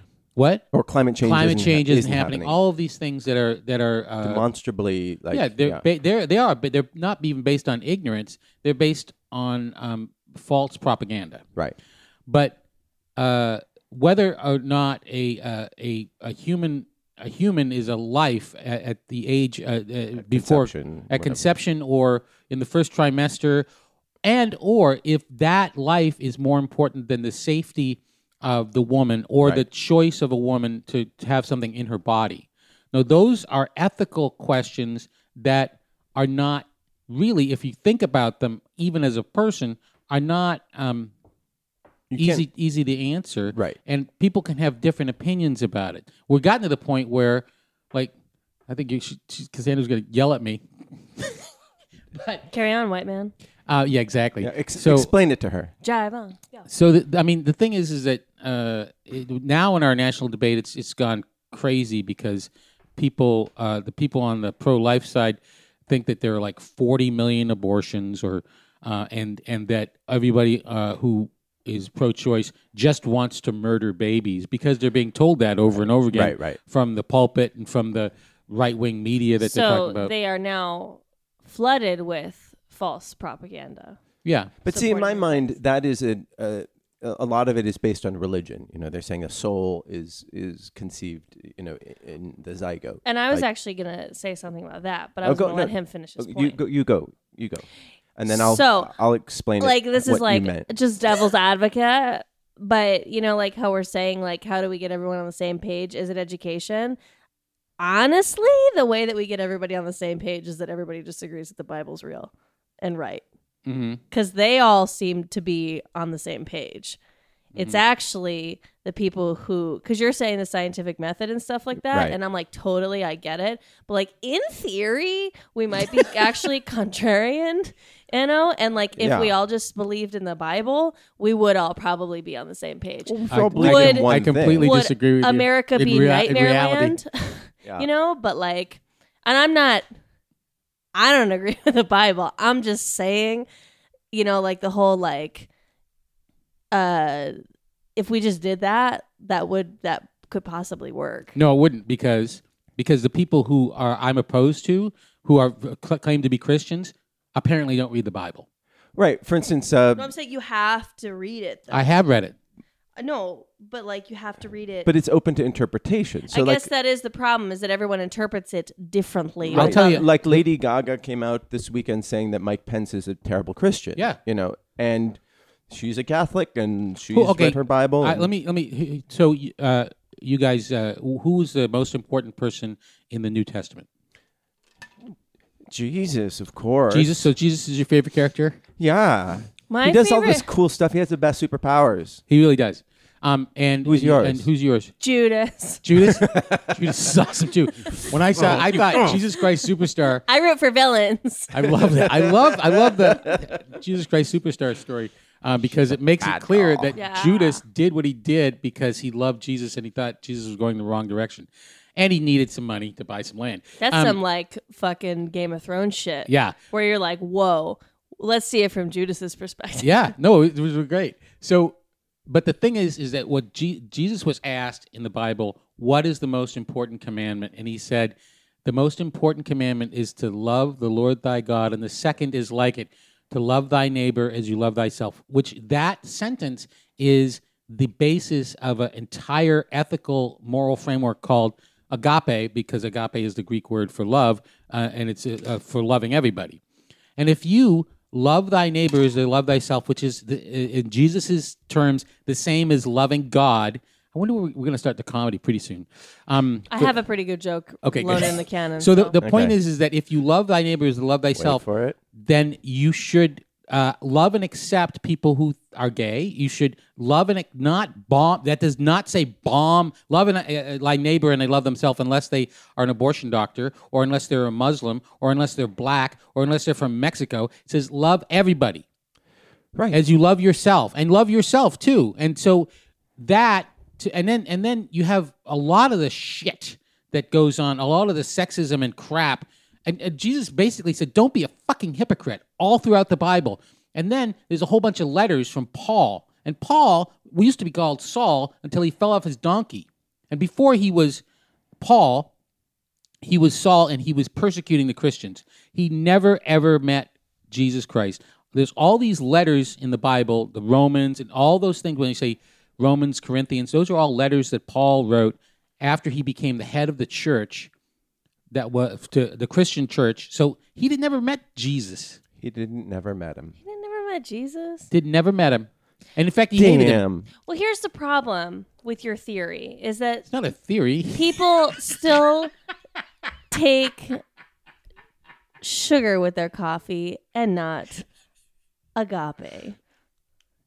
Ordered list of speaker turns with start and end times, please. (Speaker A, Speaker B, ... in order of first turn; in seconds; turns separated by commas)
Speaker A: 0.3-0.7, Speaker B: 0.7-2.5, Speaker A: 1.2-4.4, Speaker B: 4.2-5.8, Speaker A: 5.3-11.4, Speaker A: 12.3-12.6, Speaker A: 13.2-23.6, Speaker B: 20.2-21.4, Speaker A: 24.2-41.1, Speaker B: 42.1-42.4, Speaker A: 42.1-48.1, Speaker A: 48.7-50.6, Speaker A: 52.1-52.4, Speaker C: 52.5-53.3, Speaker A: 53.7-55.1, Speaker B: 54.4-55.7, Speaker C: 55.8-56.6, Speaker A: 56.7-80.1, Speaker B: 75.7-76.6, Speaker C: 79.4-84.0, Speaker A: 84.2-84.5, Speaker B: 84.6-93.5, Speaker C: 84.7-85.5, Speaker C: 93.0-96.6, Speaker B: 95.2-100.7, Speaker C: 98.3-98.9, Speaker C: 99.6-107.0, Speaker C: 107.8-113.2, Speaker A: 113.7-114.0, Speaker C: 114.1-117.0, Speaker C: 117.5-139.8, Speaker B: 121.9-122.2, Speaker B: 129.0-129.3, Speaker B: 133.1-134.7, Speaker A: 133.3-136.9, Speaker C: 140.9-143.5, Speaker C: 144.1-145.5, Speaker C: 146.7-147.4, Speaker C: 147.9-151.3, Speaker A: 151.3-158.4, Speaker B: 158.9-160.1, Speaker C: 159.9-161.9, Speaker A: 161.7-162.3, Speaker C: 163.0-164.9, Speaker B: 164.8-166.7, Speaker C: 166.3-170.0, Speaker A: 169.5-170.4, Speaker B: 169.5-178.3, Speaker A: 177.1-183.8, Speaker B: 185.7-187.3, Speaker A: 186.9-188.6, Speaker B: 188.8-192.2, Speaker C: 189.7-190.5, Speaker A: 192.3-194.9, Speaker B: 193.8-194.4, Speaker C: 195.0-195.8, Speaker A: 195.8-200.2, Speaker B: 195.9-197.1, Speaker B: 198.0-199.2, Speaker C: 200.2-201.5, Speaker A: 201.5-214.2, Speaker B: 201.7-203.4, Speaker B: 206.2-206.9, Speaker C: 206.9-207.6, Speaker C: 213.8-219.9, Speaker A: 216.3-216.6, Speaker A: 219.8-221.8, Speaker A: 222.3-246.6, Speaker A: 247.2-257.0, Speaker C: 256.7-259.1, Speaker A: 257.8-278.8, Speaker B: 259.2-259.6, Speaker B: 261.3-262.0, Speaker B: 279.7-280.0, Speaker A: 279.9-301.2, Speaker A: 301.8-302.3, Speaker A: 303.2-317.7, Speaker A: 318.5-322.2, Speaker B: 322.4-323.5, Speaker C: 323.6-324.9, Speaker A: 324.9-327.0, Speaker B: 326.5-327.3, Speaker C: 327.4-330.3, Speaker A: 330.3-331.9, Speaker C: 331.1-332.5, Speaker C: 333.5-334.2, Speaker C: 335.6-338.1, Speaker C: 338.9-339.8